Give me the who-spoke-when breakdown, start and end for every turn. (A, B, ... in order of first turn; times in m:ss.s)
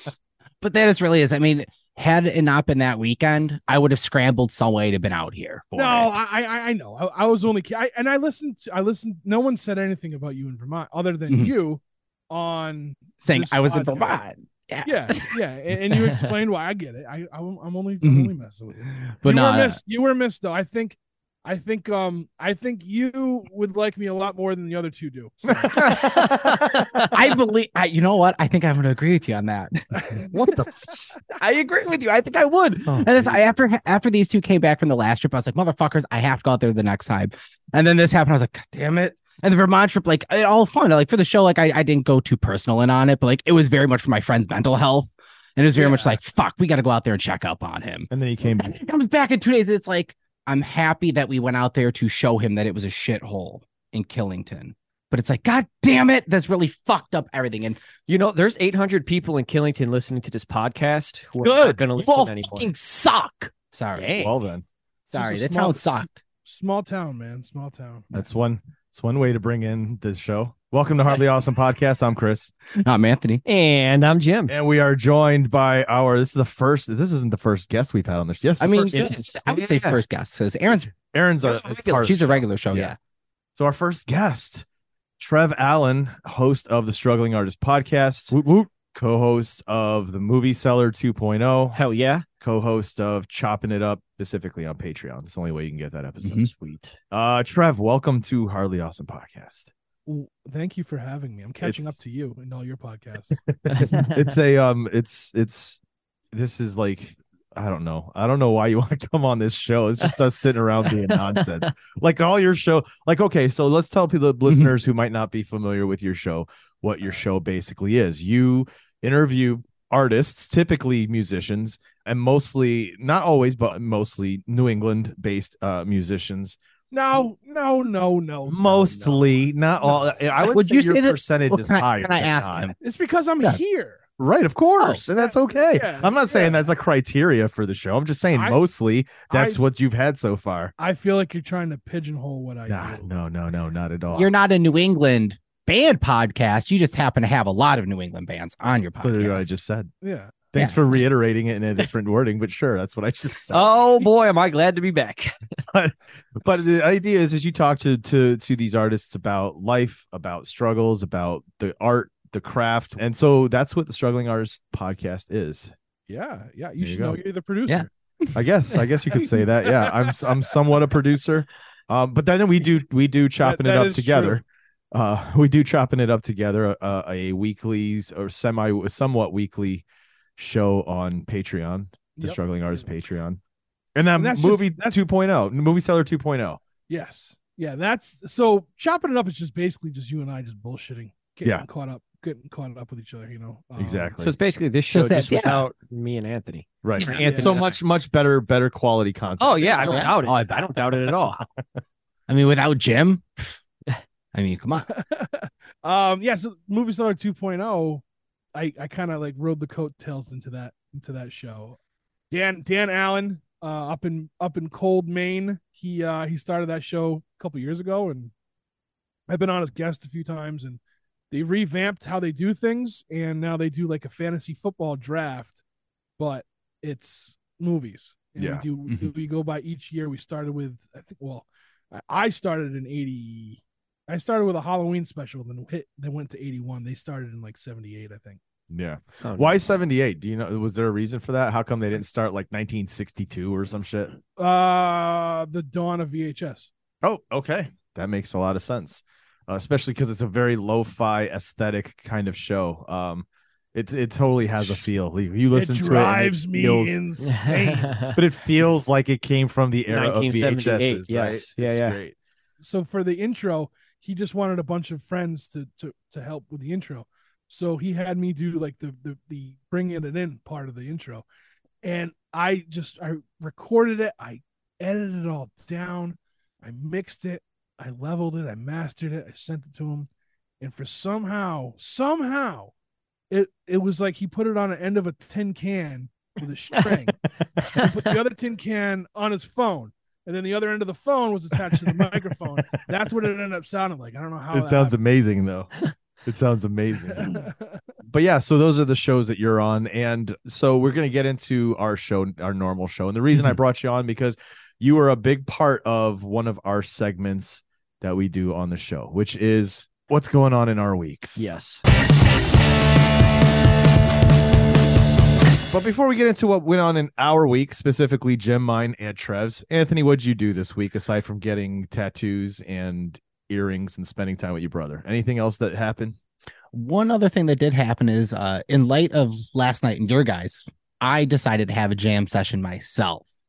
0:00.6-0:05.7 A
0:05.7-0:06.2 B
0:05.8-0:14.2 C
0:11.3-0:11.5 A
0:13.2-0:15.4 A
0:14.8-0:25.9 C
0:18.0-0:18.3 A
0:19.1-0:19.8 A
0:25.5-0:27.1 B
0:25.7-0:26.4 A
0:26.0-0:27.1 D
0:27.1-0:57.8 A
0:32.8-0:33.4 B
0:48.1-0:48.8 B
0:58.1-1:02.7 D
1:01.4-1:04.1 A
1:04.0-1:04.3 D
1:04.1-1:04.6 B
1:05.0-1:06.2 A
1:05.1-1:08.1 C
1:08.1-1:12.5 B
1:12.7-1:13.4 A
1:13.4-1:14.5 D
1:14.5-1:19.0 B
1:18.6-1:20.9 A
1:18.9-1:20.0 D
1:20.9-1:22.9 B
1:21.5-1:22.0 D
1:21.9-1:23.0 A
1:23.6-1:24.6 B
1:25.2-1:31.8 B
1:28.3-1:28.6 A
1:31.7-1:32.2 D
1:32.4-1:36.5 B
1:36.2-1:36.5 A
1:36.4-1:37.0 D
1:37.1-1:39.7 B
1:40.0-1:43.4 C
1:41.6-1:42.0 B
1:43.5-1:45.8 B
1:43.8-1:44.2 D
1:46.3-2:06.6 B
1:54.4-1:54.7 A
2:06.9-2:10.1 C
2:08.5-2:12.7 B
2:10.5-2:12.7 A
2:12.8-2:14.0 C
2:14.2-2:20.7 B
2:15.1-2:16.6 C
2:18.3-2:18.6 C
2:19.3-2:19.6 C
2:20.8-2:23.0 C
2:22.7-2:24.3 B
2:24.1-2:29.5 A
2:29.0-2:29.9 B
2:30.0-2:30.3 C
2:30.5-2:33.7 B
2:33.5-2:35.3 D
2:35.7-2:45.7 B
2:46.1-2:47.9 C
2:46.8-2:47.2 B
2:47.7-2:48.3 A
2:48.3-2:59.8 B
2:49.1-2:50.3 C
2:53.4-2:54.4 C
3:00.4-3:03.4 B
3:02.2-3:02.8 C
3:03.9-3:06.6 B
3:04.2-3:05.0 C
3:06.9-3:14.1 C
3:13.8-3:14.3 B
3:14.2-3:17.7 D
3:14.9-3:15.7 A
3:16.8-3:20.0 B
3:17.1-3:17.6 C
3:19.4-3:21.4 D
3:19.8-3:20.5 A
3:22.3-3:23.6 A
3:24.3-3:24.9 A
3:24.9-3:28.0 C
3:28.5-3:31.8 C
3:32.3-3:38.3 C
3:39.3-3:40.8 C
3:41.3-3:45.6 C
3:46.2-3:58.4 C
3:48.4-3:48.6 B
3:48.9-3:49.1 A
3:58.7-4:04.2 B
3:59.2-3:59.8 D
4:04.4-4:06.7 C
4:07.0-4:17.0 B
4:14.6-4:14.9 C
4:15.5-4:18.1 C
4:17.2-4:18.2 D
4:18.1-4:22.1 B
4:19.9-4:22.0 D
4:22.6-4:31.2 C
4:31.8-4:40.1 C
4:40.6-4:42.7 C
4:43.3-4:47.2 C
4:47.7-4:54.9 C
4:54.5-4:57.3 B
4:57.1-4:57.8 C
4:58.1-5:11.5 B
5:11.4-5:11.8 D
5:15.7-5:26.2 B
5:26.7-5:33.2 A